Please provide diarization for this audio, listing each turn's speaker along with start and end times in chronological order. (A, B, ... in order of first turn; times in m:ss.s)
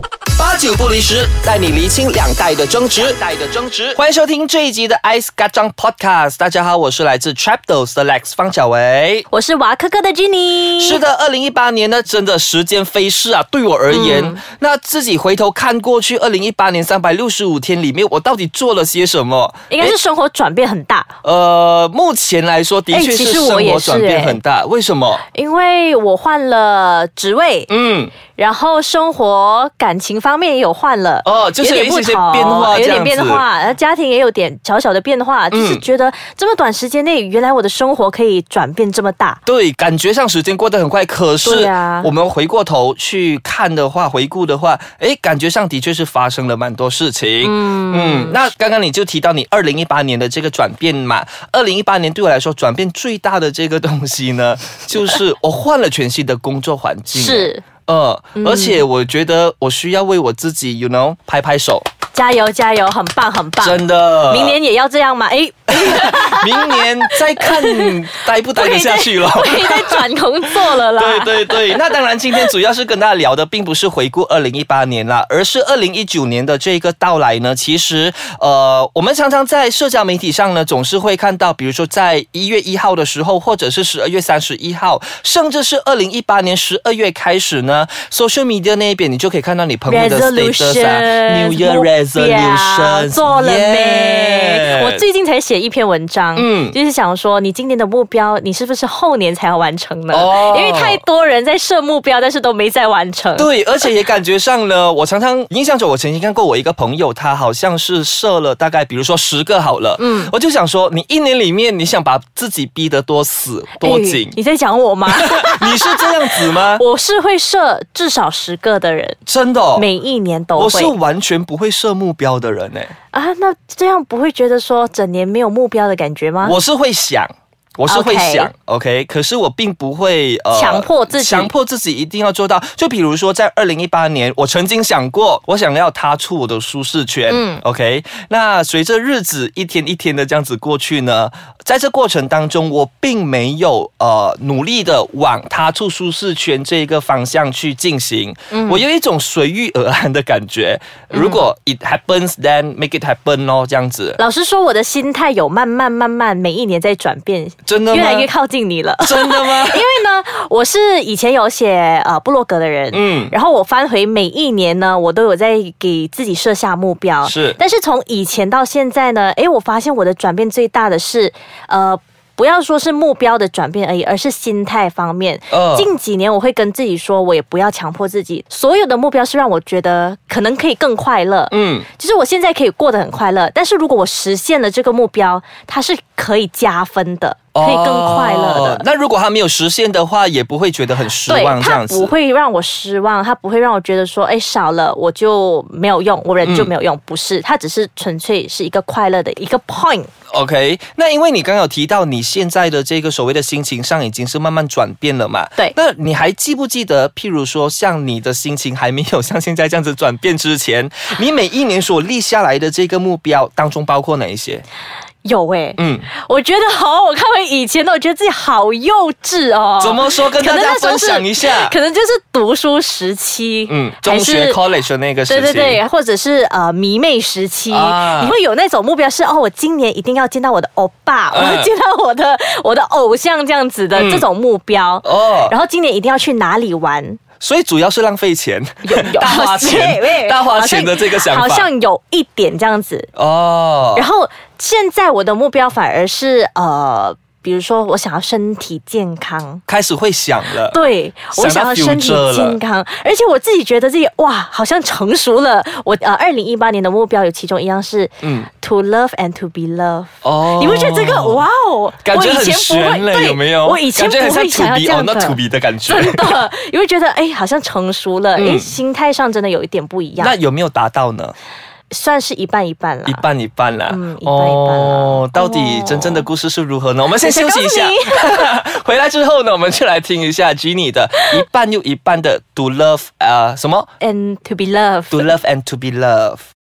0:00.4-0:09.3 A
0:09.3-0:11.0 B
0:10.8-0:20.0 A
0:13.9-0:14.4 B
0:19.7-0:21.1 B
0:21.2-0:25.2 A
0:22.9-0:24.4 B
0:25.3-0:27.7 B
0:27.7-0:28.1 A
0:28.3-0:39.4 B
0:31.2-0:33.4 A
0:35.5-0:35.8 A
0:39.5-1:01.9 A
0:41.4-0:42.1 B
0:47.4-0:48.4 B
0:57.1-0:57.6 B
0:58.4-0:58.8 B
1:02.1-1:08.0 B
1:03.6-1:04.6 A
1:05.7-1:10.0 A
1:08.5-1:11.9 B
1:10.8-1:35.0 A
1:29.9-1:43.5 B
1:36.4-1:36.8 A
1:40.1-1:41.0 A
1:43.4-1:54.4 A
1:50.0-1:50.3 B
1:53.8-1:59.2 B
1:55.1-1:56.8 A
1:59.3-1:59.9 A
1:59.8-2:01.0 B
2:00.6-2:02.9 A
2:03.1-2:06.6 B
2:06.4-2:34.2 A
2:07.9-2:08.5 B
2:10.5-2:11.5 B
2:17.3-2:17.6 B
2:28.5-2:28.8 B
2:31.1-2:31.4 B
2:34.2-3:08.8 B
2:37.7-2:38.3 A
2:39.0-2:39.9 A
2:42.9-2:43.3 A
2:47.2-2:47.6 A
2:55.5-2:55.9 A
3:01.5-3:01.9 A
3:07.6-3:12.1 A
3:11.3-3:20.1 B
3:16.4-3:16.7 A
3:20.3-3:34.6 A
3:35.2-3:44.6 B
3:35.8-3:36.1 A
3:39.8-3:41.8 A
3:43.7-3:45.8 A
3:45.3-3:57.2 B
3:47.7-3:48.4 A
3:51.3-3:51.7 A
3:54.0-3:54.2 A
3:55.0-3:55.6 A
3:57.4-4:01.7 A
3:58.8-4:03.1 B
4:03.2-4:04.1 A
4:04.0-4:09.6 B
4:09.7-4:10.8 A
4:10.5-4:30.4 B
4:11.3-4:12.6 A
4:18.2-4:18.5 A
4:20.2-4:21.5 A
4:22.0-4:26.3 A
4:28.4-4:28.8 A
4:30.2-4:31.3 A
4:31.9-4:33.2 B
4:33.1-4:43.9 A
4:33.9-4:36.3 B
4:37.2-4:38.5 B
4:44.0-4:45.3 B
4:45.1-4:46.4 A